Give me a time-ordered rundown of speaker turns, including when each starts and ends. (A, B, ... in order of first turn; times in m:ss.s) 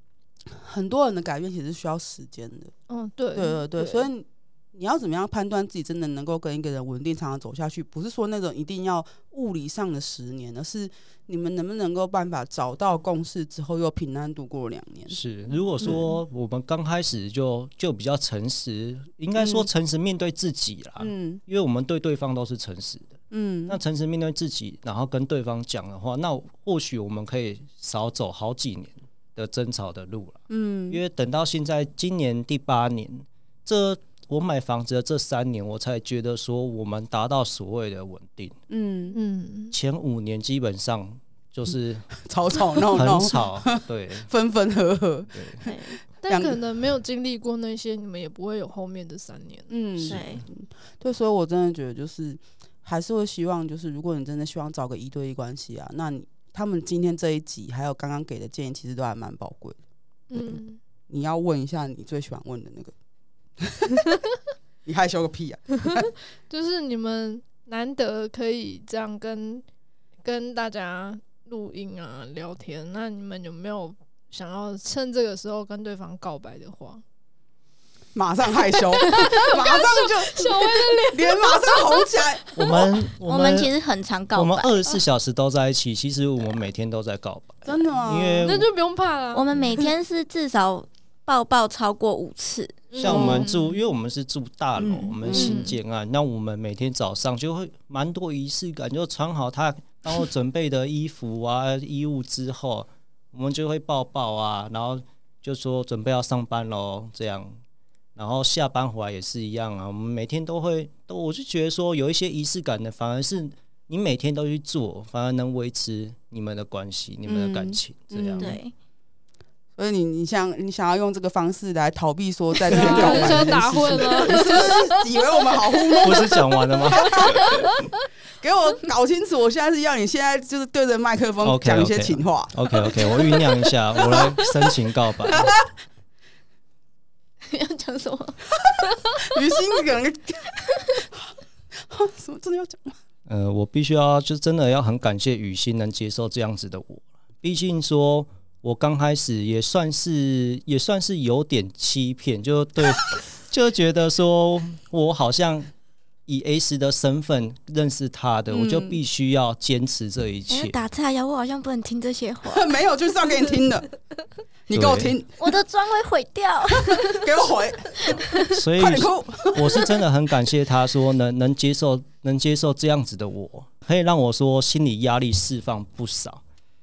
0:00.5-0:02.7 A
0:02.9-0:04.1 B
0:03.3-0:15.2 A
0:15.1-0:38.6 C
0:19.4-0:19.7 A
0:21.0-0:21.4 A
0:23.3-0:23.8 A
0:30.5-0:31.0 A
0:38.7-0:39.2 A
0:39.1-0:39.7 B
0:39.7-0:42.1 C
0:42.2-0:46.6 A
0:42.9-0:44.3 C
0:45.3-0:45.6 C
0:45.6-0:46.0 D
0:46.2-0:49.7 B
0:49.7-0:59.8 A
0:50.0-0:50.4 D
1:00.3-1:00.8 B
1:00.4-1:02.9 A
1:03.6-1:04.0 A
1:04.8-1:06.0 A
1:05.9-1:09.6 B
1:10.2-1:17.0 B
1:18.1-1:22.8 A
1:18.7-1:22.0 B
1:22.6-1:23.7 C
1:23.3-1:25.0 D
1:24.4-1:28.7 C
1:27.6-1:28.5 A
1:28.4-1:29.8 B
1:29.3-1:33.4 D
1:32.9-1:33.8 B
1:32.9-1:47.6 C
1:34.9-1:35.4 D
1:35.2-1:35.6 A
1:35.3-1:35.8 B
1:48.1-1:58.5 C
1:57.3-1:58.6 A
1:58.4-1:58.7 D
1:59.8-2:07.5 A
2:02.7-2:06.0 B
2:02.7-2:04.2 C
2:06.0-2:07.5 C
2:08.4-2:13.3 A
2:11.4-2:15.6 C
2:14.0-2:14.5 A
2:17.4-2:18.6 D
2:19.2-2:23.0 A
2:23.3-2:35.7 C
2:36.3-2:40.8 C
2:38.5-2:39.0 A
2:40.5-2:42.7 D
2:42.4-2:43.9 A
2:44.7-2:45.4 A
2:44.7-2:45.2 C
2:45.4-2:47.3 D
2:46.8-2:48.2 A
2:48.5-2:56.4 C
2:48.8-2:49.9 A